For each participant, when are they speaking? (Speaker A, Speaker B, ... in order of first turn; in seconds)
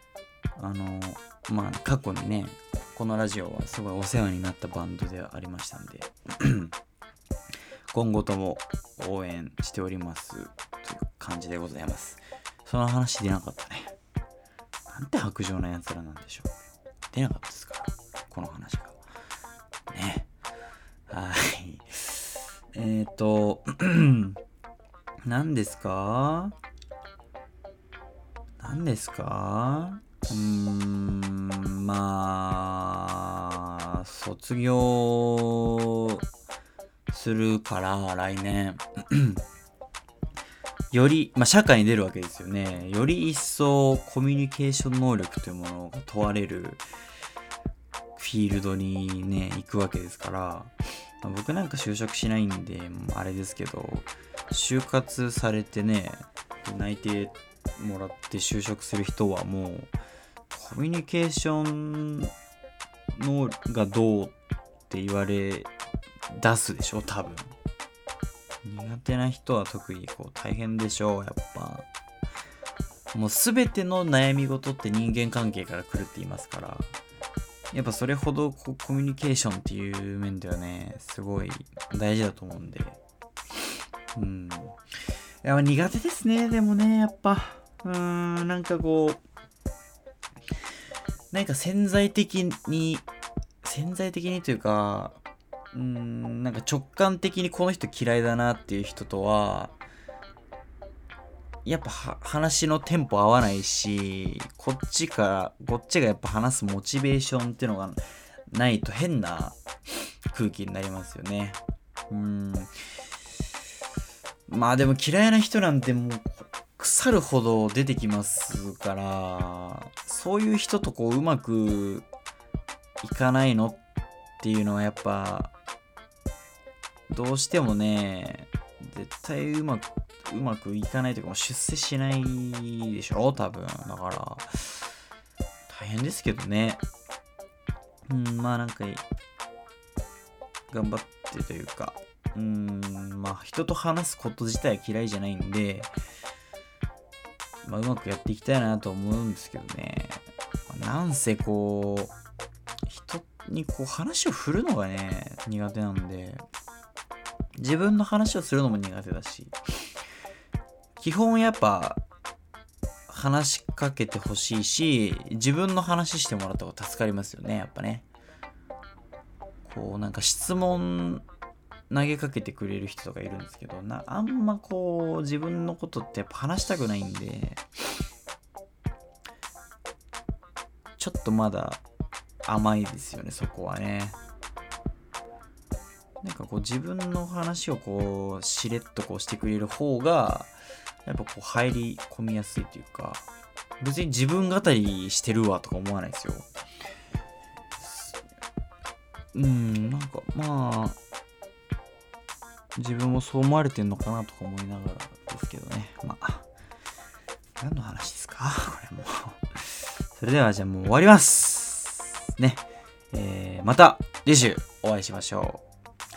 Speaker A: 0.6-6.7, 7.9-13.9, 14.9-16.5, 17.1-19.0, 19.9-20.3, 21.1-24.4, 25.2-26.6, 28.6-36.2, 37.1-39.4, 40.9-46.8, 48.2-59.9, 60.5-62.3, 63.1-64.3, 64.9-65.7, 66.3-67.5, 68.6-71.9, 73.1-77.0, 77.7-83.0, 84.2-89.2, 91.3-93.1, 93.6-95.2, 95.7-99.7, 101.7-109.6, 110.3-111.6, 112.1-112.7, 114.5-122.1, 123.0-123.8, 124.4-125.5, 127.1-134.9, 135.7-136.8, 138.1-139.0, 140.7-145.9, 147.6-152.1, 152.9-156.4, 157.6-159.9, 161.0-162.0, 163.1-168.1, 169.7-171.2, 171.9-177.6, 181.0-181.8, 182.4-184.2, 186.2-190.5, 191.1-193.2, 193.8-196.5, 197.8-198.2, 199.3-201.0, 202.8-206.4, 207.6-209.4, 210.1-215.6